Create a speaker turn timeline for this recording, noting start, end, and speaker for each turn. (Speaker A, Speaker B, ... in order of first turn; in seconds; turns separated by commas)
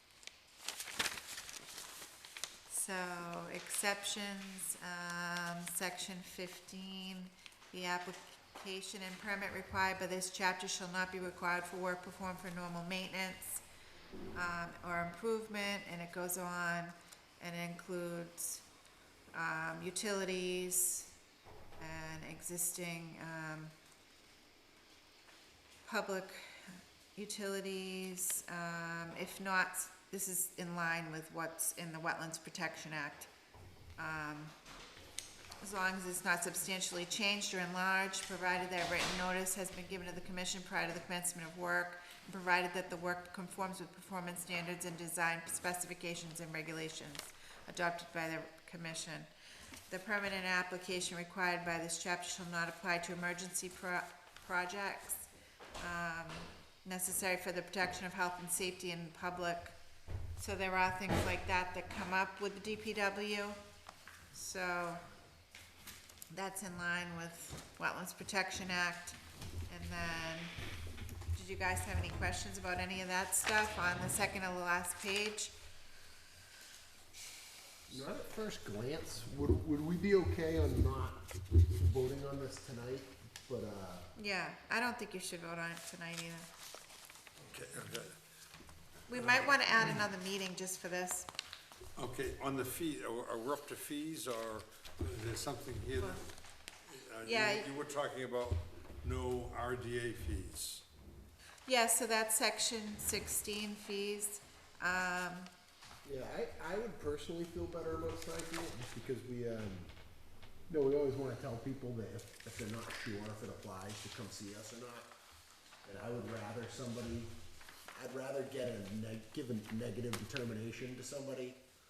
Speaker A: 2.7-13.6, Speaker A: 14.3-18.6, Speaker A: 19.3-21.1, Speaker A: 21.8-23.7, Speaker A: 25.9-33.3, Speaker A: 34.0-34.5, Speaker A: 35.6-49.3, Speaker A: 49.9-59.8, Speaker A: 60.4-63.6, Speaker A: 64.3-65.0, Speaker A: 66.3-69.2, Speaker A: 69.7-70.5, Speaker A: 71.3-75.5, Speaker B: 77.9-84.0, Speaker A: 84.2-86.5, Speaker C: 87.4-88.2, Speaker A: 89.1-91.3, Speaker C: 89.1-90.0, Speaker C: 92.0-96.2, Speaker C: 96.9-100.8, Speaker A: 97.2-97.7, Speaker A: 101.7-105.5, Speaker B: 106.0-109.9, Speaker B: 110.7-115.1, Speaker B: 115.8-117.3, Speaker B: 117.9-121.6